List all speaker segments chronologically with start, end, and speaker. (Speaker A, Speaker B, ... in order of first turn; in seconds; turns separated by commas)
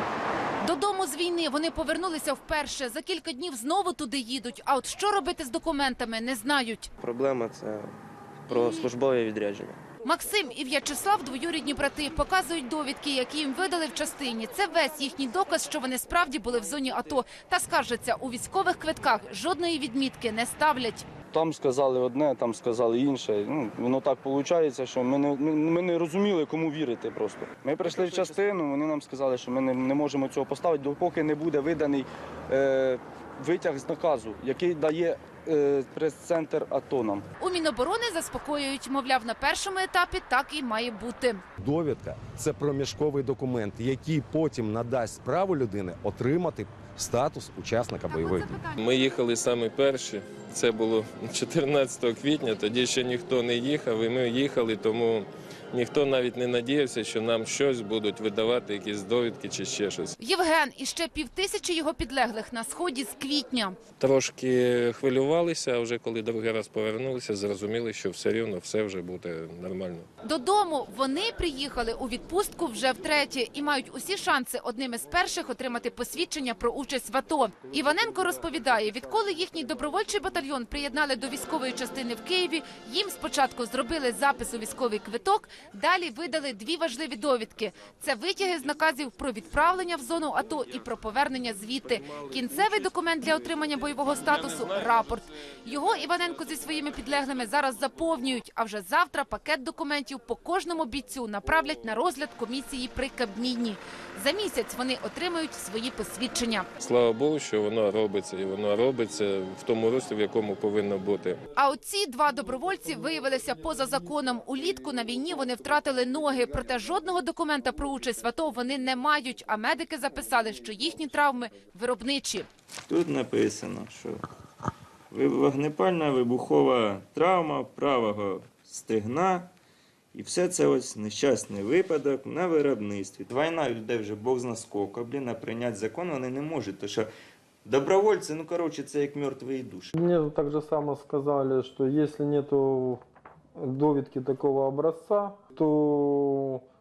Speaker A: 0.6-6.9, Speaker B: 7.0-7.9, Speaker B: 8.5-9.8, Speaker A: 10.0-21.1, Speaker C: 21.3-37.2, Speaker A: 37.4-41.4, Speaker D: 41.6-48.6, Speaker A: 48.1-48.9, Speaker E: 48.8-60.1, Speaker A: 60.2-63.8, Speaker E: 64.0-70.1, Speaker A: 70.2-106.7, Speaker E: 106.8-111.4, Speaker A: 111.5-122.5, Speaker F: 122.9-124.2, Speaker F: 125.1-129.5, Speaker F: 130.1-137.1, Speaker F: 137.6-139.9, Speaker G: 139.9-143.0, Speaker G: 143.6-146.6